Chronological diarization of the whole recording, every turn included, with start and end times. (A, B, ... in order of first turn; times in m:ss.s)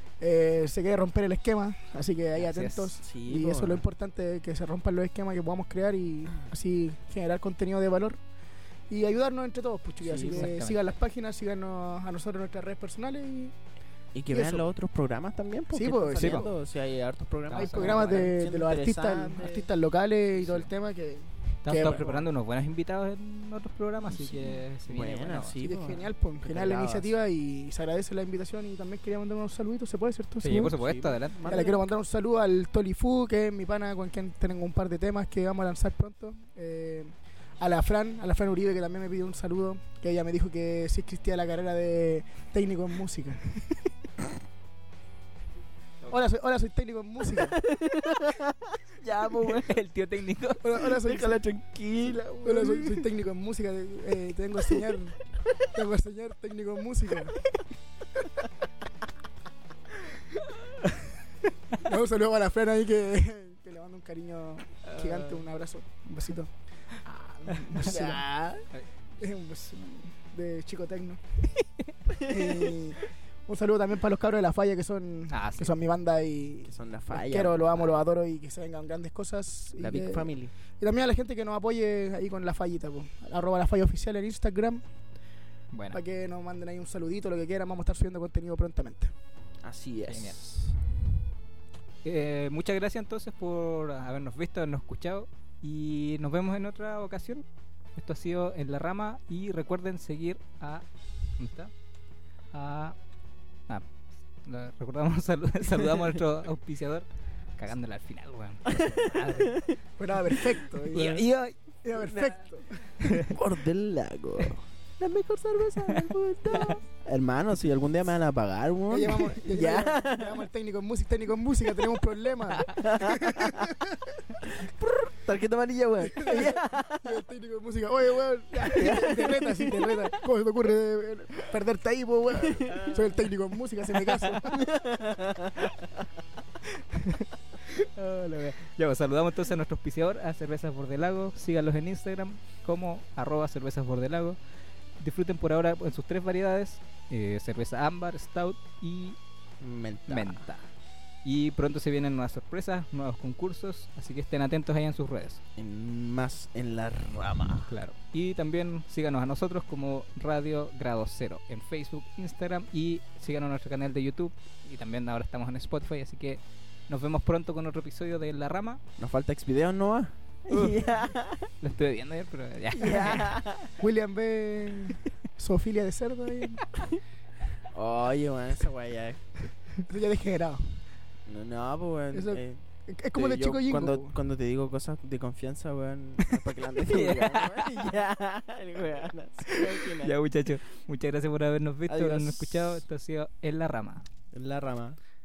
0:00.2-0:08.2 A
0:02.4-0:03.0 B
0:03.0-0:03.8 C
0:08.9-0:13.5 A
0:10.0-0:10.5 C
0:10.2-0:10.9 B
0:14.1-0:19.7 C
0:14.3-0:14.7 A
0:15.7-0:16.5 A
0:17.5-0:18.3 B
0:17.5-0:22.1 A
0:21.6-0:25.6 B
0:21.8-0:22.2 C
0:24.8-0:27.1 C
0:25.6-0:30.7 A
0:30.4-0:31.4 B
0:30.4-0:31.8 C
0:31.5-0:43.6 A
0:46.1-0:47.6 A
0:47.4-0:49.8 C
0:49.4-0:50.8 B
0:50.6-0:51.4 A
0:50.8-0:53.1 C
0:52.0-0:57.4 A
0:54.6-0:54.9 C
1:01.7-1:06.5 A
1:04.8-1:05.4 B
1:07.0-1:08.2 A
1:07.8-1:08.6 C
1:09.2-1:11.2 A
1:11.6-1:11.9 B
1:12.2-1:24.8 A
1:15.3-1:15.7 B
1:16.7-1:17.7 C
1:19.8-1:20.5 C
1:25.7-1:26.0 B
1:25.9-1:29.1 A
1:29.6-1:30.7 C
1:30.1-1:30.6 B
1:32.0-1:37.4 B
1:38.0-1:40.8 B
1:41.4-1:41.7 B
1:42.5-1:42.9 B
1:44.4-1:49.7 B
1:48.7-1:49.7 C
1:50.0-1:51.3 A
1:50.9-1:51.5 B
1:51.8-1:53.3 A
1:51.9-1:52.3 C
1:53.0-1:53.3 B
1:53.2-2:00.5 C
1:55.9-1:56.8 B
1:58.9-2:04.2 A
2:02.6-2:03.7 C
2:04.4-2:07.2 C
2:06.1-2:14.6 A
2:08.6-2:10.1 C
2:12.4-2:13.0 C
2:14.4-2:16.0 C
2:16.7-2:24.4 B
2:25.0-2:29.2 B
2:29.6-2:30.4 C
2:30.1-2:30.7 B
2:31.2-2:35.4 B
2:35.6-2:37.7 C
2:37.7-2:48.8 B
2:49.0-2:51.5 C
2:50.5-2:50.9 B
2:51.6-2:53.4 B
2:52.7-2:53.6 C
2:53.8-2:56.6 A
2:57.7-2:59.2 C
2:59.9-3:00.8 A
3:01.3-3:02.6 C
3:02.1-3:04.2 A
3:03.1-3:10.2 C
3:06.8-3:07.8 B
3:09.5-3:14.0 B
3:11.9-3:12.8 C
3:14.3-3:15.0 C